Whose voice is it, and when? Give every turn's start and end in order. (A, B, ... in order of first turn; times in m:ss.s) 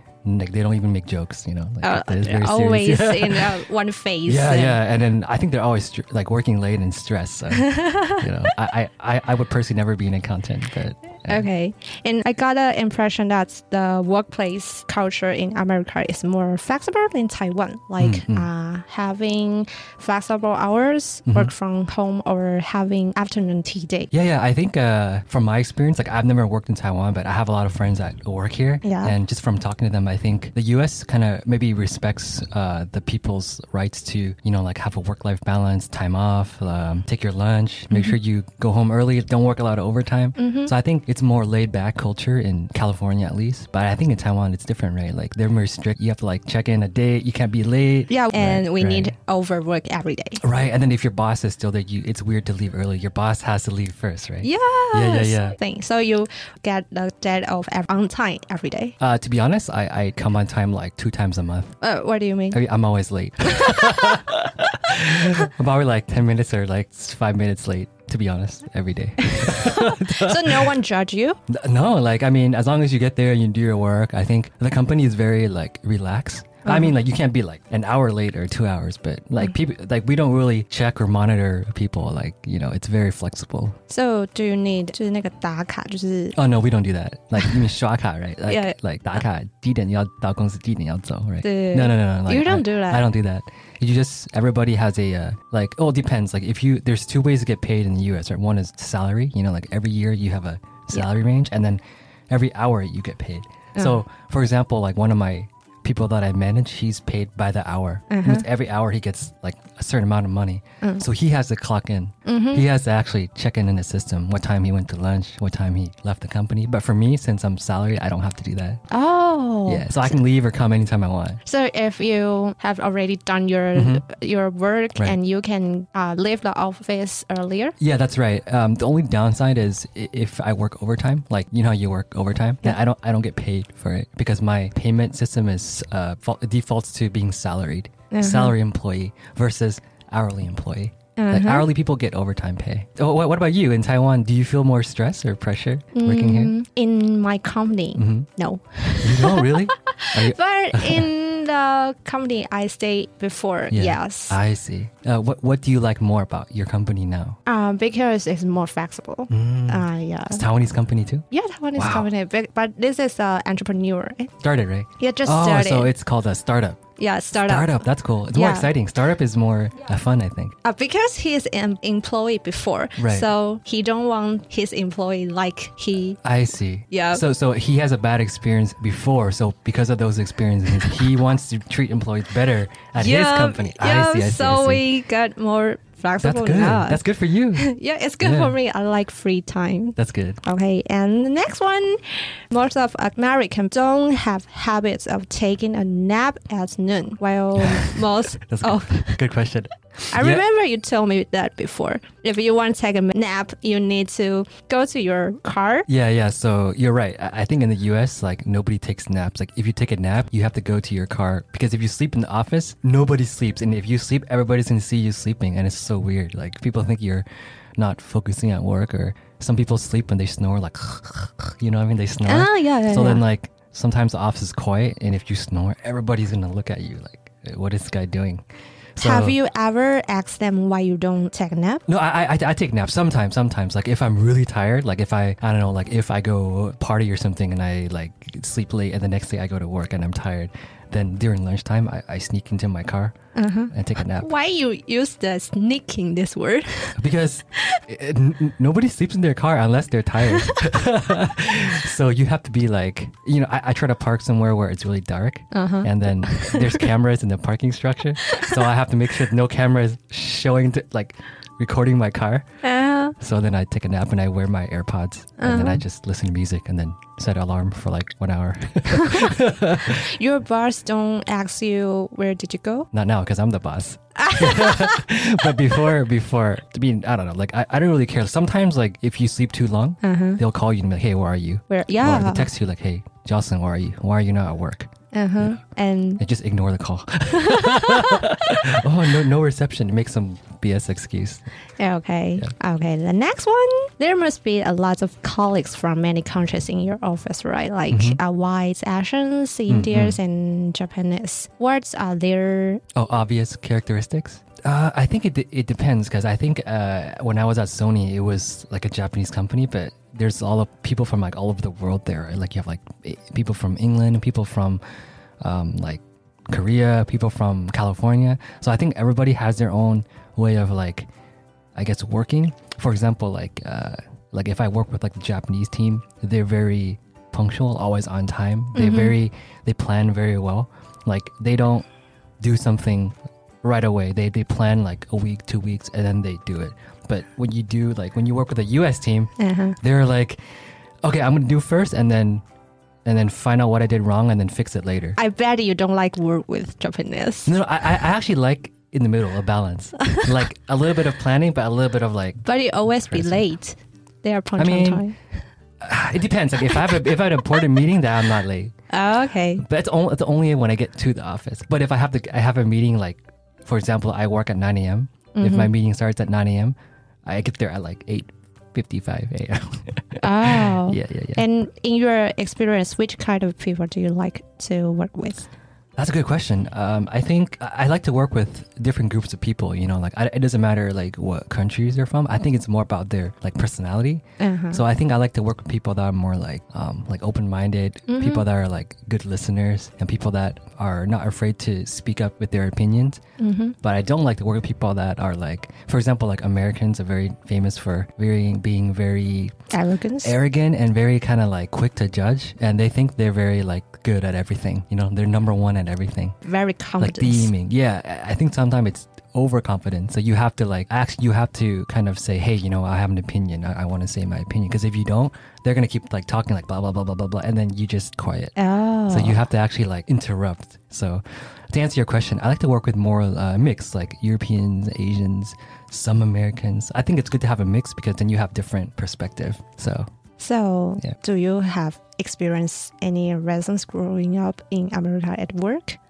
0:00.2-0:03.6 A
0:01.8-0:04.8 B
0:04.2-0:11.5 A
0:07.5-0:08.2 B
0:11.3-0:24.1 B
0:18.0-0:18.5 A
0:24.1-0:49.1 A
0:28.8-0:29.2 B
0:37.9-0:38.2 B
0:40.4-0:40.7 B
0:48.1-0:50.4 B
0:50.4-0:55.6 A
0:54.4-0:59.0 B
0:59.0-1:01.7 A
1:01.8-1:02.6 B
1:02.5-1:10.7 A
1:03.4-1:04.2 B
1:09.2-1:11.4 B
1:11.5-1:23.8 A
1:16.6-1:16.9 B
1:23.9-1:26.4 B
1:26.3-1:58.8 A
1:28.5-1:28.7 B
1:31.4-1:33.1 B
1:43.7-1:44.0 B
1:48.1-1:48.5 B
1:52.2-1:52.6 B
1:58.9-2:00.2 B
1:59.6-2:01.4 A
2:01.4-2:07.8 B
2:03.7-2:04.0 A
2:07.8-2:26.5 A
2:18.1-2:18.6 B
2:21.2-2:21.7 B
2:25.9-2:34.4 B
2:28.0-2:28.3 A
2:29.0-2:31.1 A
2:33.7-2:37.4 A
2:37.4-2:40.4 B
2:39.3-2:42.1 A
2:41.3-2:44.3 B
2:44.4-2:46.8 A
2:45.0-2:45.9 B
2:47.0-2:48.7 B
2:47.4-2:50.5 A
2:50.6-2:56.2 B
2:53.0-2:53.3 A
2:56.2-3:04.8 A
2:56.9-2:57.2 B
3:02.9-3:07.0 B
3:06.2-3:07.7 A
3:07.5-3:19.2 B
3:08.2-3:08.6 A
3:10.0-3:10.4 A
3:17.7-3:20.4 A
3:20.1-3:25.9 B
3:25.9-3:48.4 A
3:42.2-3:43.2 B
3:49.0-3:49.4 A
3:49.0-3:51.8 B
3:51.9-4:03.1 A
4:03.3-4:06.9 B
4:03.7-4:04.3 A
4:07.0-4:22.4 A
4:10.2-4:10.6 B
4:15.5-4:16.9 B
4:18.2-4:18.6 B
4:22.6-4:23.1 B
4:23.2-4:30.1 A
4:25.4-4:25.8 B
4:28.9-4:32.9 B
4:32.9-4:45.6 A
4:34.2-4:35.0 B
4:40.0-4:40.4 B
4:41.7-4:42.5 B
4:45.1-4:46.2 B
4:46.2-4:51.4 A
4:47.3-4:48.2 B
4:51.8-5:02.8 B
4:57.9-4:58.2 A
4:59.7-5:00.2 A
5:02.9-5:14.8 A
5:15.4-5:21.1 A
5:21.7-5:31.8 A
5:28.7-5:29.2 B
5:32.4-5:40.4 A
5:39.4-5:39.8 B
5:41.0-5:42.4 A
5:43.0-5:45.2 A
5:45.2-5:47.6 B
5:47.4-5:52.4 A
5:52.4-5:55.2 B
5:53.0-5:53.4 A
5:54.6-5:55.0 A
5:55.8-5:58.7 A
5:56.7-5:57.6 B
5:58.9-5:59.6 B
5:59.6-6:11.4 A
6:05.3-6:05.7 B
6:10.2-6:15.5 B
6:16.0-6:33.2 A
6:24.4-6:24.8 B
6:28.1-6:28.5 B
6:33.4-6:33.8 B
6:33.8-6:39.5 A
6:39.7-6:40.3 B
6:40.2-6:46.3 A
6:46.4-6:47.5 B
6:47.0-6:58.5 A
6:58.6-6:59.4 B
6:59.1-7:10.1 A
7:10.4-7:16.0 B